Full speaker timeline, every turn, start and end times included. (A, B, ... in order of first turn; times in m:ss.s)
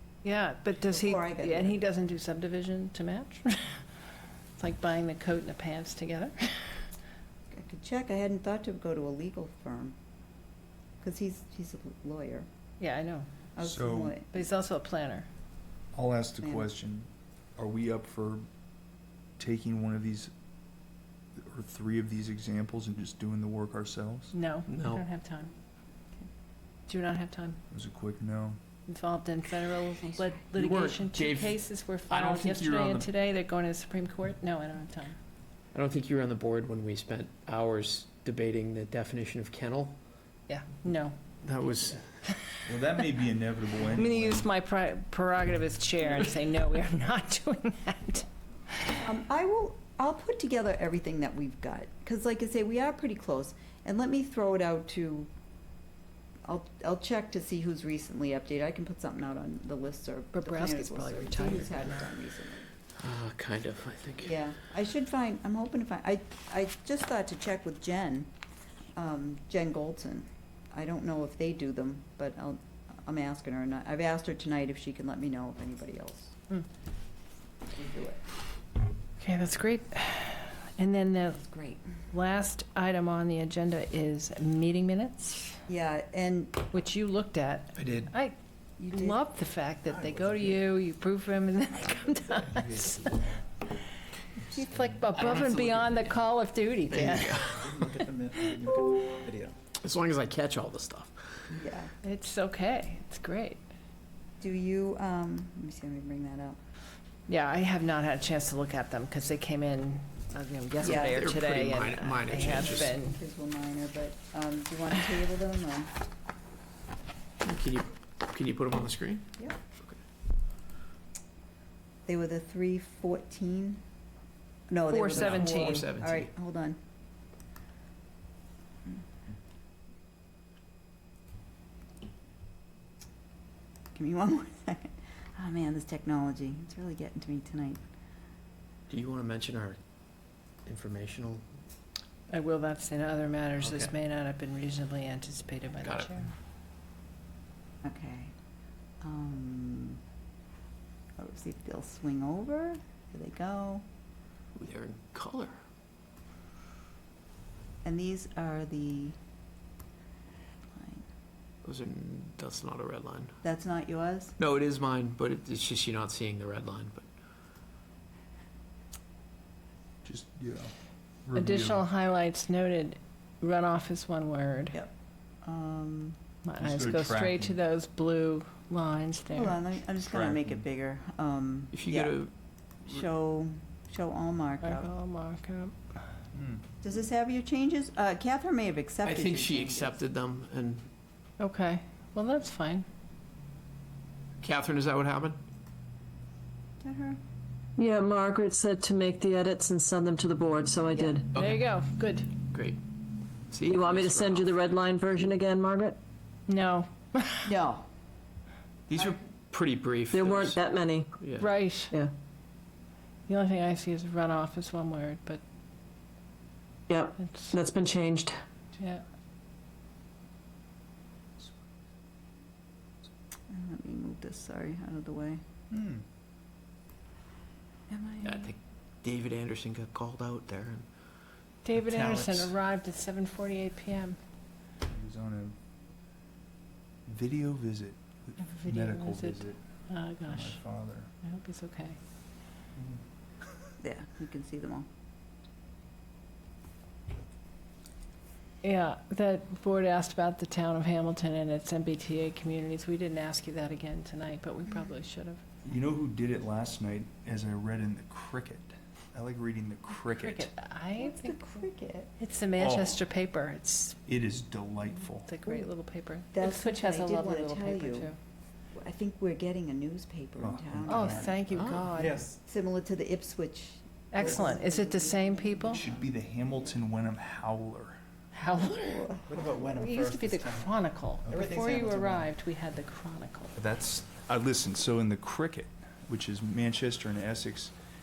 0:00.2-0:03.9 A
0:00.8-0:01.8 B
0:04.6-0:06.9 A
0:07.5-0:10.0 B
0:11.0-0:12.5 B
0:12.8-0:13.3 A
0:13.6-0:14.3 B
0:13.6-0:14.1 C
0:14.3-0:15.3 A
0:15.9-0:18.5 C
0:16.4-0:16.7 B
0:19.4-0:20.3 C
0:21.4-0:24.3 C
0:24.3-0:25.5 A
0:24.7-0:25.0 D
0:26.9-0:27.6 A
0:27.7-0:28.6 C
0:28.9-0:35.2 A
0:30.0-0:30.4 B
0:30.6-0:33.1 D
0:35.7-0:40.0 D
0:40.5-0:41.2 A
0:41.4-0:42.0 D
0:42.6-0:44.5 C
0:43.9-0:48.3 A
0:49.0-0:55.3 B
0:56.5-1:02.7 B
1:00.3-1:02.1 A
1:03.0-1:04.4 D
1:04.2-1:08.3 B
1:09.0-1:16.4 B
1:17.7-1:18.2 B
1:19.2-1:21.4 A
1:21.4-1:21.8 B
1:22.1-1:25.6 A
1:25.7-1:26.6 B
1:26.7-1:28.4 A
1:27.8-1:28.1 D
1:28.8-1:29.2 B
1:28.9-1:33.4 A
1:29.9-1:30.6 E
1:32.5-1:33.1 C
1:34.4-1:37.5 A
1:35.2-1:36.2 D
1:36.9-1:38.0 D
1:37.5-1:39.6 E
1:39.8-1:41.3 D
1:41.5-1:41.9 B
1:42.0-1:43.6 A
1:44.4-1:46.6 B
1:47.3-1:53.2 A
1:50.8-1:53.0 D
1:50.8-1:51.3 B
1:52.3-1:55.9 B
1:57.4-2:00.0 D
2:02.1-2:03.8 B
2:04.7-2:06.8 B
2:04.9-2:05.9 A
2:05.1-2:06.3 D
2:14.0-2:17.8 B
2:18.9-2:19.8 D
2:20.6-2:21.4 D
2:22.3-2:26.3 A
2:23.6-2:23.9 D
2:25.8-2:26.2 D
2:27.8-2:28.3 B
2:29.0-2:30.0 B
2:31.2-2:33.8 B
2:34.6-2:35.6 D
2:37.8-2:39.2 B
2:40.8-2:41.0 B
2:41.6-2:43.3 D
2:43.4-2:44.3 B
2:44.4-2:47.1 D
2:50.0-2:50.7 C
2:51.3-2:51.9 C
2:51.4-2:54.8 A
2:55.4-2:56.2 B
2:56.4-2:59.6 A
2:56.6-2:57.6 C
2:59.3-3:02.2 B
3:00.0-3:00.6 C
3:01.7-3:02.3 D
3:02.8-3:04.9 B
3:04.6-3:05.8 A
3:06.3-3:06.6 C
3:06.8-3:10.0 B
3:09.0-3:10.9 D
3:11.4-3:12.9 A
3:14.4-3:15.4 D
3:16.8-3:17.2 B
3:17.8-3:21.3 F
3:20.9-3:21.2 B
3:21.1-3:22.3 A
3:21.3-3:21.6 D
3:22.5-3:22.8 D
3:23.5-3:24.7 D
3:23.7-3:26.0 F
3:26.5-3:27.5 A
3:27.4-3:27.9 B
3:28.9-3:30.6 D
3:30.1-3:31.1 F
3:31.2-3:31.5 D
3:31.4-3:31.9 A
3:33.3-3:35.4 A
3:36.9-3:38.4 F
3:37.2-3:37.6 A
3:38.8-3:39.0 A
3:43.5-3:45.4 B
3:45.7-3:46.0 C
3:47.9-3:48.5 B
3:48.2-3:50.9 D
3:51.6-3:54.2 A
3:51.7-3:52.5 D
3:54.8-3:55.6 C
3:57.1-3:59.6 C
3:58.4-4:00.6 A
4:00.3-4:01.1 C
4:01.2-4:02.0 A
4:02.7-4:03.0 C
4:03.8-4:04.9 B
4:08.6-4:15.4 A
4:15.6-4:20.5 C
4:20.0-4:21.6 A
4:21.0-4:22.1 B
4:22.2-4:24.0 A
4:22.6-4:23.0 C
4:24.1-4:25.3 C
4:25.3-4:28.2 A
4:25.4-4:25.7 B
4:26.3-4:28.1 B
4:28.7-4:31.4 B
4:30.4-4:31.4 C
4:30.9-4:32.3 A
4:31.5-4:31.9 D
4:31.9-4:32.4 E
4:32.4-4:36.1 B
4:34.1-4:35.8 A
4:34.2-4:34.5 E
4:35.7-4:38.0 C
4:38.3-4:39.1 A
4:38.6-4:39.4 B
4:39.3-4:42.3 E
4:39.7-4:43.6 A
4:43.6-4:47.7 C